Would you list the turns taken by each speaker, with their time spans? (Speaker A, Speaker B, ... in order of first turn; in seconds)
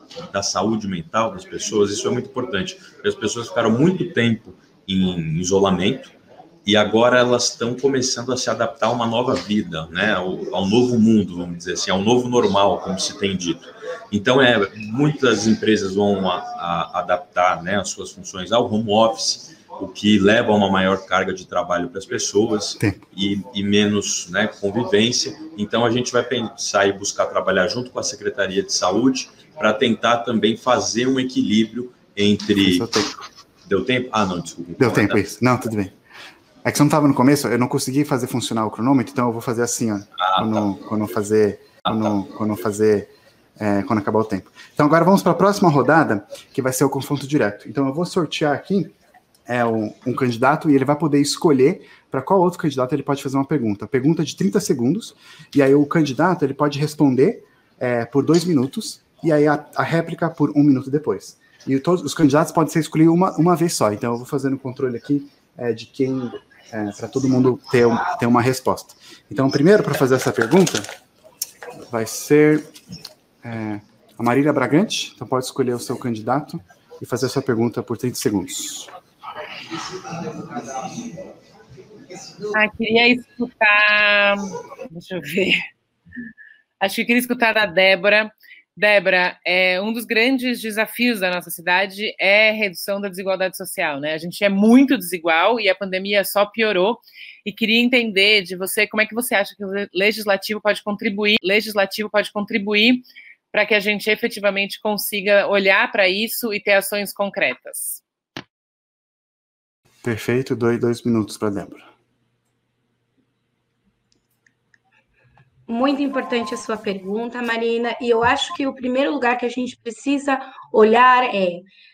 Speaker A: 0.3-33.0, 33.6-35.2, 40.2-40.6
Speaker B: 32.6-33.2, 34.8-35.9, 36.6-48.9, 49.5-70.9, 71.8-72.7, 73.4-78.9, 110.0-111.9
Speaker C: 82.5-85.7, 86.8-108.0
Speaker D: 115.7-121.6